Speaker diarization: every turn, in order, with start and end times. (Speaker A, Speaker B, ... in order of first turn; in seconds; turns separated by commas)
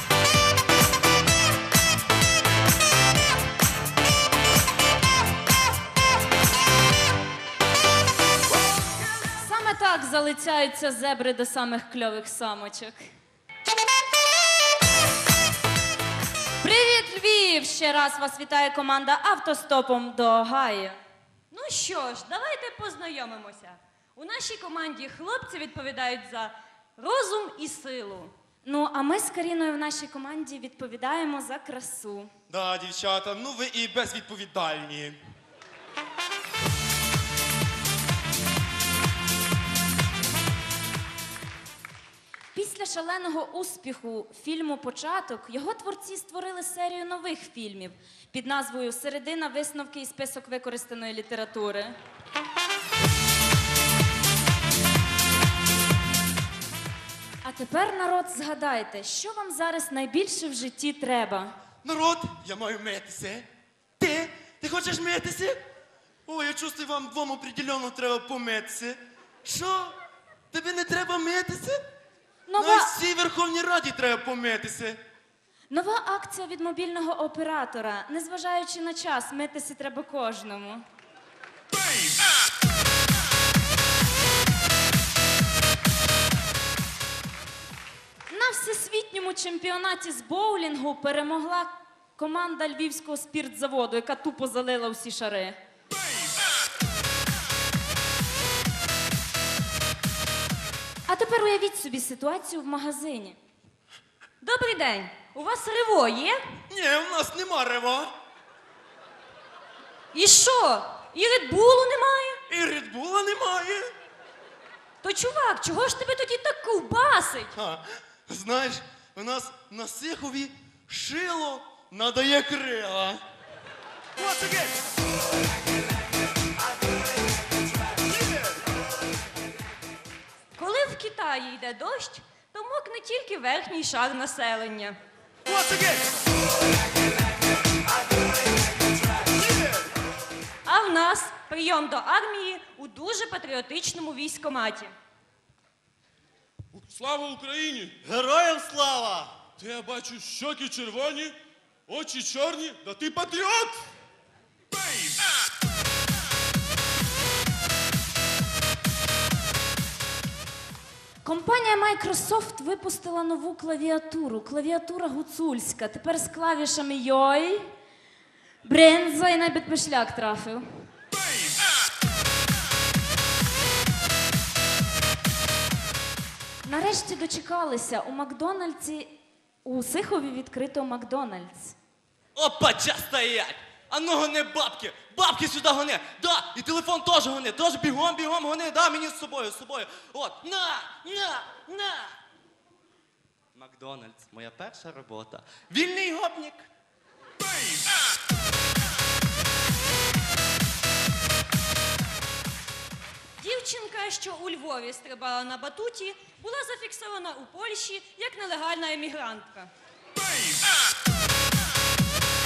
Speaker A: 9.2-13.0, Speaker A: 16.6-21.0, Speaker B: 21.5-28.3, Speaker A: 28.6-32.3, Speaker C: 32.5-35.2, Speaker A: 42.5-52.0, Speaker A: 57.4-61.5, Speaker C: 61.8-63.5, Speaker C: 64.0-65.6, Speaker C: 66.3-70.0, Speaker C: 70.5-71.8, Speaker A: 72.5-72.9, Speaker C: 72.6-75.0, Speaker A: 75.7-80.8, Speaker A: 88.3-95.6, Speaker A: 101.1-103.4, Speaker B: 104.4-106.4, Speaker C: 106.7-108.1, Speaker B: 110.1-112.4, Speaker C: 112.5-113.9, Speaker B: 115.0-117.5, Speaker C: 117.5-123.2, Speaker C: 124.2-124.7, Speaker B: 130.6-135.0, Speaker C: 135.5-136.0, Speaker B: 140.7-144.9, Speaker D: 146.7-148.0, Speaker E: 148.0-149.3, Speaker D: 149.6-151.3, Speaker D: 151.9-153.8, Speaker A: 161.2-167.7, Speaker A: 168.6-170.6, Speaker A: 176.6-181.8, Speaker E: 182.4-192.1, Speaker E: 193.6-196.7, Speaker B: 203.4-209.7